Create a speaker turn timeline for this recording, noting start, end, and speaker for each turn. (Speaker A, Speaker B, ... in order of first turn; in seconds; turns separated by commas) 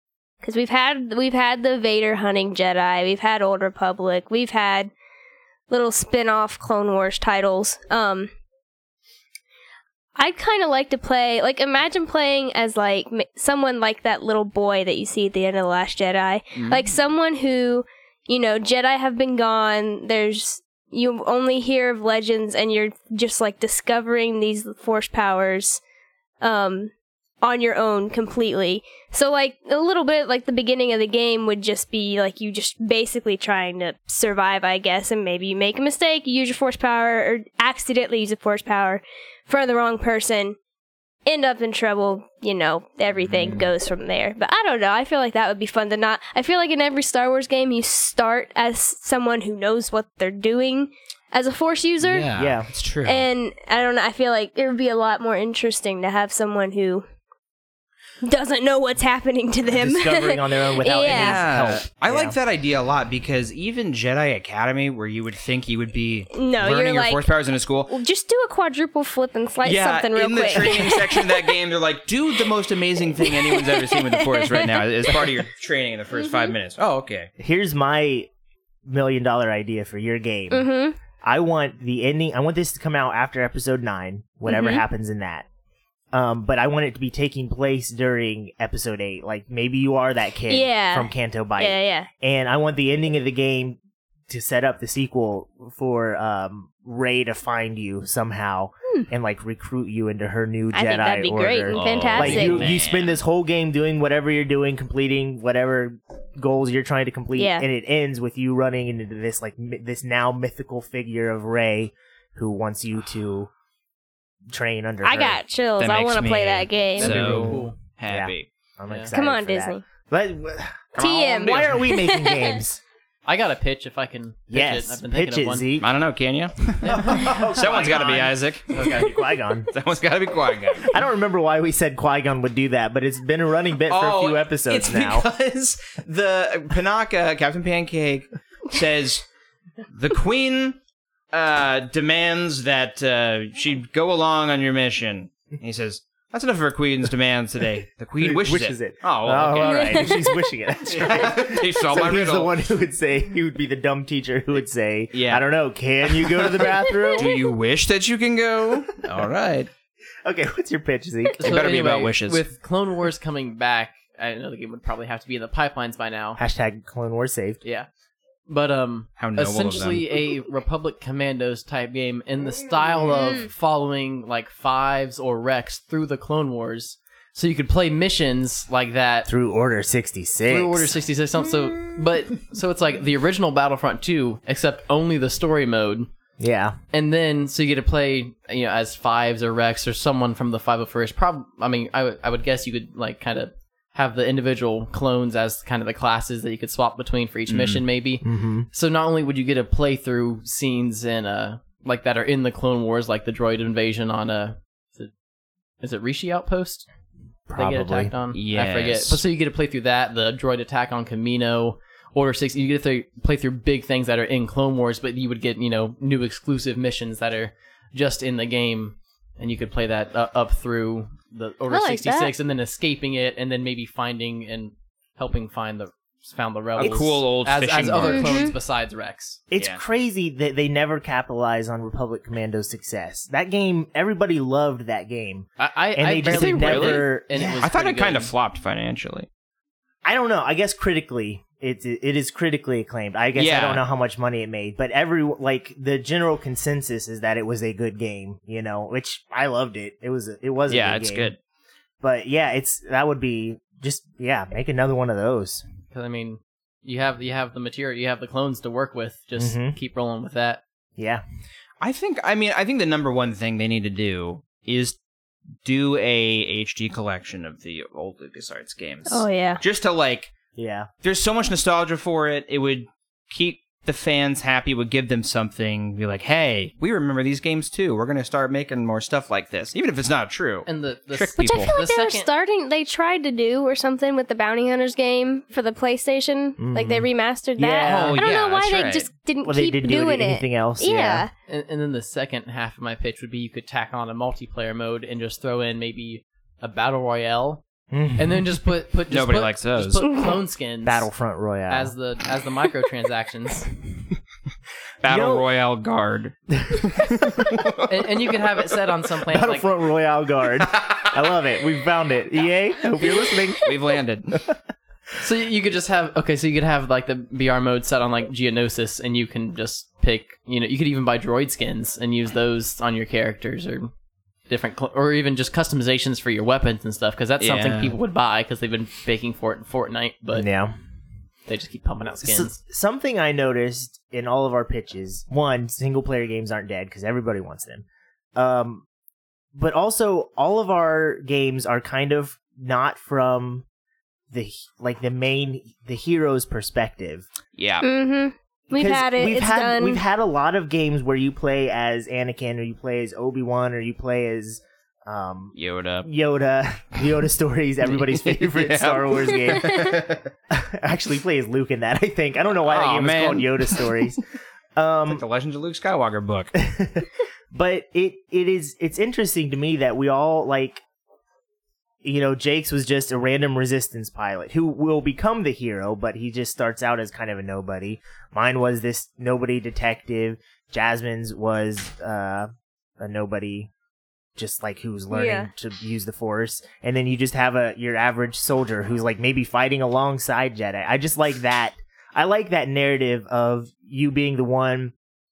Speaker A: 0.4-4.9, Speaker A: 5.7-8.3, Speaker A: 10.2-25.8, Speaker B: 16.5-16.9, Speaker A: 26.4-26.9, Speaker A: 27.4-40.6, Speaker A: 41.2-52.3, Speaker B: 43.2-43.7, Speaker B: 52.0-53.2, Speaker C: 52.3-52.7, Speaker A: 53.0-57.0, Speaker A: 58.2-61.4, Speaker C: 59.6-62.3, Speaker B: 61.0-68.0, Speaker A: 66.3-67.3, Speaker A: 67.9-71.5, Speaker B: 69.6-77.3, Speaker A: 73.2-75.4, Speaker A: 76.2-76.5, Speaker C: 77.4-78.3, Speaker C: 78.8-80.7, Speaker A: 80.5-81.0, Speaker C: 81.2-85.5, Speaker A: 84.5-84.8, Speaker C: 86.1-93.8, Speaker A: 90.5-92.1, Speaker C: 94.3-113.5, Speaker A: 100.7-102.7, Speaker B: 101.7-103.2, Speaker A: 107.3-107.6, Speaker C: 114.5-115.4, Speaker A: 115.0-117.3, Speaker B: 115.8-118.5, Speaker D: 117.0-117.8, Speaker C: 117.3-122.8, Speaker A: 119.1-119.8, Speaker A: 121.0-122.6, Speaker B: 121.4-121.7, Speaker D: 123.2-125.7, Speaker C: 124.5-125.9, Speaker B: 125.8-129.1, Speaker D: 126.8-127.7, Speaker C: 126.9-129.7, Speaker D: 128.7-129.1, Speaker B: 129.7-130.9, Speaker C: 130.8-135.3, Speaker B: 133.9-139.2, Speaker B: 139.9-140.8, Speaker B: 141.3-150.2, Speaker C: 148.2-157.4, Speaker A: 149.6-150.2, Speaker B: 150.9-152.5, Speaker B: 155.1-155.4, Speaker B: 156.1-159.7, Speaker C: 160.2-161.4, Speaker D: 161.3-166.4, Speaker B: 161.4-162.4, Speaker C: 166.4-167.6, Speaker D: 167.6-167.9, Speaker D: 168.5-179.3, Speaker B: 169.2-170.1, Speaker C: 179.3-180.9, Speaker D: 180.5-186.1, Speaker C: 186.4-186.8, Speaker D: 186.9-205.1, Speaker B: 197.5-197.8, Speaker C: 198.2-198.7, Speaker D: 205.8-206.9, Speaker C: 207.5-208.1, Speaker D: 207.5-229.4, Speaker B: 208.3-209.2, Speaker A: 221.7-222.3, Speaker B: 226.8-228.5, Speaker A: 228.0-228.5, Speaker C: 229.5-237.6, Speaker B: 229.6-229.8, Speaker D: 235.6-238.3, Speaker B: 236.2-239.3, Speaker C: 240.0-251.3, Speaker B: 243.3-243.8, Speaker B: 250.7-251.4, Speaker C: 252.0-255.6, Speaker D: 255.9-260.6, Speaker C: 259.4-259.8, Speaker C: 261.0-261.2, Speaker B: 261.8-265.0, Speaker B: 265.6-270.3, Speaker A: 269.1-269.6, Speaker C: 270.6-270.9, Speaker B: 271.0-281.8, Speaker D: 280.6-282.3, Speaker A: 281.4-291.3, Speaker C: 286.6-288.2, Speaker B: 287.8-289.1, Speaker C: 289.4-291.2, Speaker D: 291.5-297.6, Speaker C: 297.9-298.6, Speaker D: 298.1-301.1, Speaker B: 299.1-300.1, Speaker C: 300.8-301.9, Speaker D: 301.7-303.7, Speaker B: 305.0-307.8, Speaker C: 305.1-305.4, Speaker C: 306.6-306.9, Speaker D: 307.9-309.7, Speaker C: 309.3-313.7, Speaker B: 310.7-311.0, Speaker B: 313.6-314.4, Speaker D: 315.2-323.9, Speaker D: 324.5-330.5, Speaker B: 327.4-328.0, Speaker C: 330.3-330.7, Speaker D: 331.5-332.5, Speaker C: 332.2-338.8, Speaker C: 339.5-343.6, Speaker C: 344.3-347.3, Speaker B: 347.6-347.9, Speaker A: 347.8-350.0, Speaker C: 348.7-364.2, Speaker B: 355.5-356.1, Speaker B: 357.8-360.2, Speaker A: 359.6-359.9, Speaker B: 362.6-363.9, Speaker C: 364.8-365.2, Speaker B: 365.1-366.5, Speaker C: 366.5-370.8, Speaker C: 372.0-383.7, Speaker C: 384.4-394.9, Speaker A: 385.1-385.5